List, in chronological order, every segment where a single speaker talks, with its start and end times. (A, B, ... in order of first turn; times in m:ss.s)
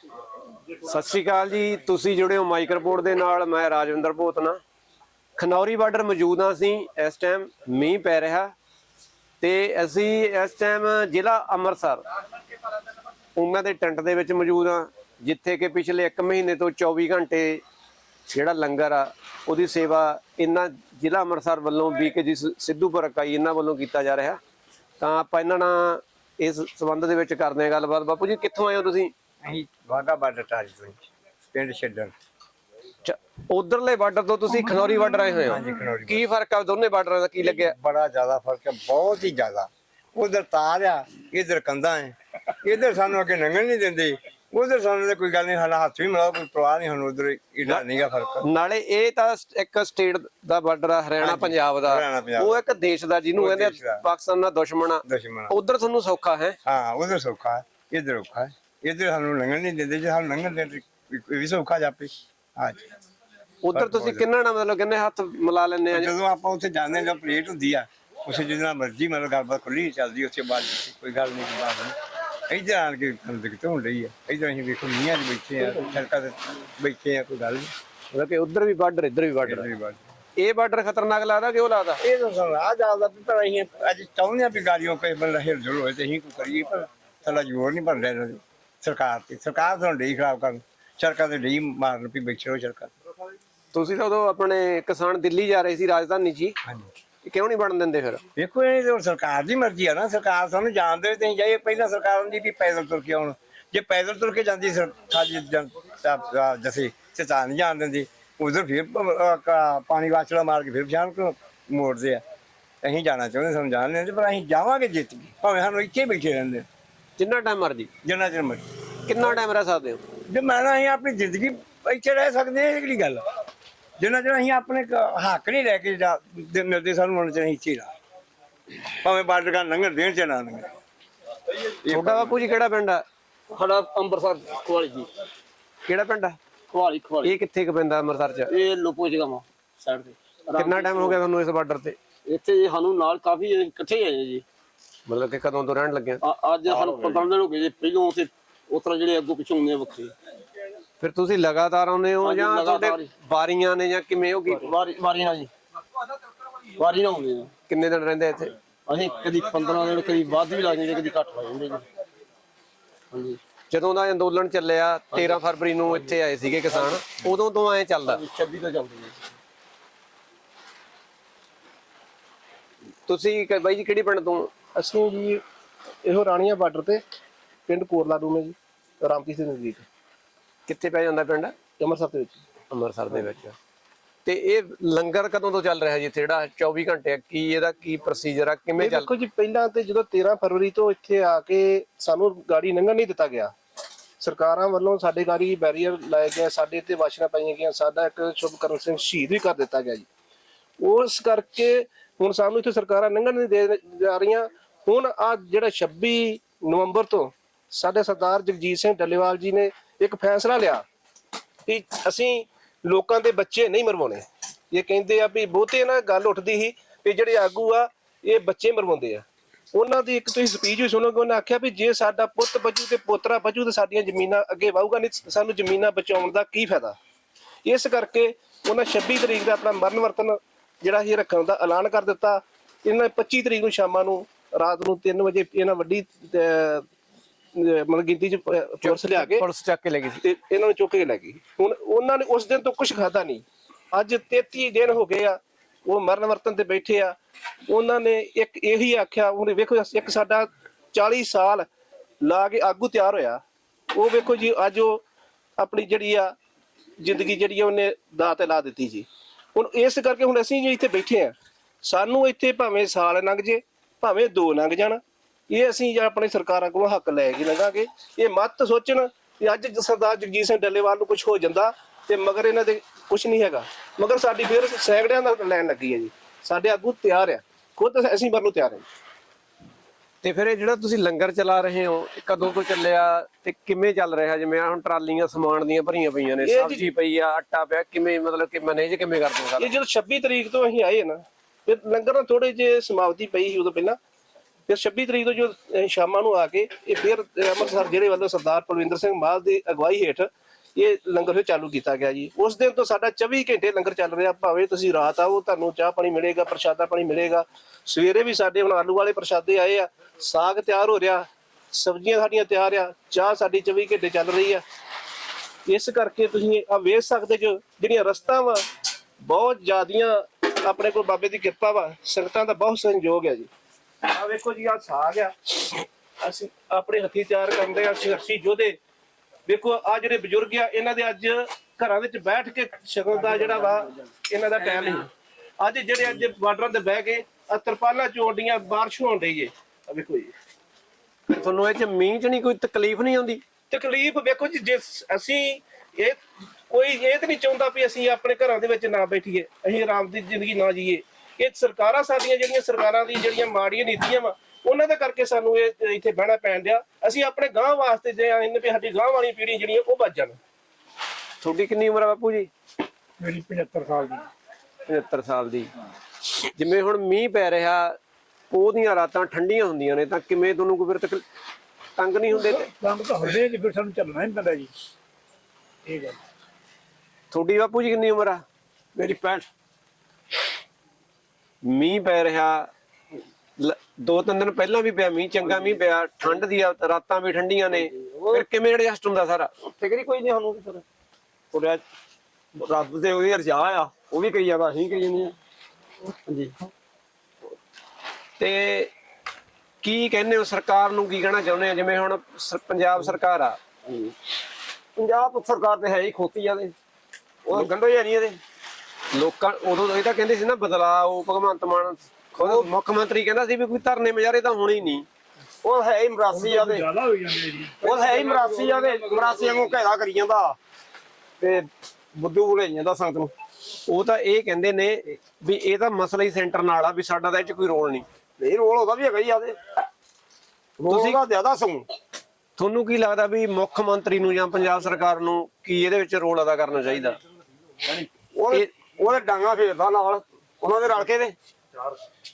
0:00.8-0:04.6 A
0:05.4-0:08.5 A
0:09.4-0:12.0 A
0:13.4-0:17.6 A
0:18.3-0:24.4 A
0:25.0-0:29.1 A
0:29.4-0:32.1 B
0:33.0-0:37.7 A
0:34.7-0:35.4 C
0:35.5-0:36.2 B
0:37.4-0:48.4 B
0:48.4-0:56.6 A
0:51.2-0:52.6 B
0:53.4-0:54.0 B
0:55.0-0:55.5 B
0:56.6-1:02.8 B
1:03.6-1:06.1 A
1:03.7-1:04.3 B
1:05.9-1:11.9 B
1:12.5-1:17.7 B
1:18.1-1:19.7 A
1:19.4-1:20.0 B
1:20.4-1:22.0 A
1:22.0-1:32.9 B
1:33.7-1:36.6 A
1:37.2-1:38.2 A
1:38.4-1:52.2 B
1:52.8-1:56.6 B
1:57.2-1:57.9 A
1:58.0-1:58.6 B
1:59.1-2:00.0 A
2:00.3-2:03.2 B
2:04.0-2:07.9 B
2:09.0-2:10.7 B
2:11.8-2:12.4 B
2:11.9-2:13.0 A
2:13.5-2:15.1 D
2:15.8-2:16.4 A
2:16.7-2:17.3 D
2:17.2-2:18.5 A
2:18.5-2:21.2 D
2:20.5-2:22.0 A
2:22.2-2:24.4 D
2:25.1-2:26.2 A
2:26.2-2:30.1 D
2:31.0-2:34.7 A
2:32.2-2:33.1 D
2:34.5-2:35.5 D
2:36.8-2:37.5 D
2:37.7-2:38.5 A
2:38.9-2:41.8 D
2:43.1-2:43.4 D
2:43.7-2:48.2 A
2:45.1-2:46.1 D
2:48.0-2:49.2 D
2:53.1-2:54.5 A
2:54.7-2:55.4 E
2:56.0-2:57.0 E
2:57.7-2:59.8 E
3:00.7-3:01.5 A
3:01.8-3:02.4 E
3:02.7-3:03.6 A
3:04.2-3:09.1 A
3:08.8-3:13.5 E
3:14.2-3:20.0 E
3:20.8-3:30.8 E
3:31.7-3:47.0 E
3:47.6-3:56.8 E
3:57.5-3:59.4 E
3:58.8-4:00.2 A
4:00.2-4:07.1 E
4:07.7-4:11.7 E
4:12.2-4:13.4 E
4:13.9-4:15.0 E
4:15.6-4:16.3 E
4:17.0-4:38.8 E
4:40.2-4:49.7 A
4:46.4-4:46.8 E
4:49.6-4:54.0 E
4:54.7-5:14.6 E
5:15.6-5:18.6 E
5:19.2-5:23.5 E
5:24.0-5:28.8 E
5:29.5-5:35.1 E
5:35.6-5:40.3 E
5:41.3-5:43.4 A
5:43.7-5:46.2 E
5:46.7-6:00.4 E
6:01.4-6:02.5 A
6:03.2-6:04.2 C
6:04.9-6:05.7 A
6:06.5-6:08.0 A
6:08.5-6:11.2 A
6:12.0-6:12.7 A
6:12.3-6:14.7 C
6:15.8-6:16.2 C
6:17.3-6:18.4 A
6:19.0-6:19.4 A
6:21.6-6:22.7 A
6:23.6-6:29.5 A
6:27.7-6:28.4 D
6:29.7-6:30.8 D
6:31.5-6:31.8 D
6:32.6-6:35.3 D
6:36.1-6:36.5 D
6:38.4-6:38.9 A
6:39.8-6:43.6 A
6:43.8-6:44.1 D
6:45.0-6:46.7 D
6:47.4-6:48.4 D
6:49.1-6:55.0 A
6:52.4-6:52.7 D
6:55.6-6:56.9 D
6:56.3-6:58.2 C
6:57.8-7:00.6 D
7:01.4-7:03.3 D
7:03.9-7:08.0 A
7:08.4-7:09.6 D
7:10.8-7:11.9 D
7:10.9-7:11.2 A
7:12.6-7:17.2 A
7:18.3-7:21.3 D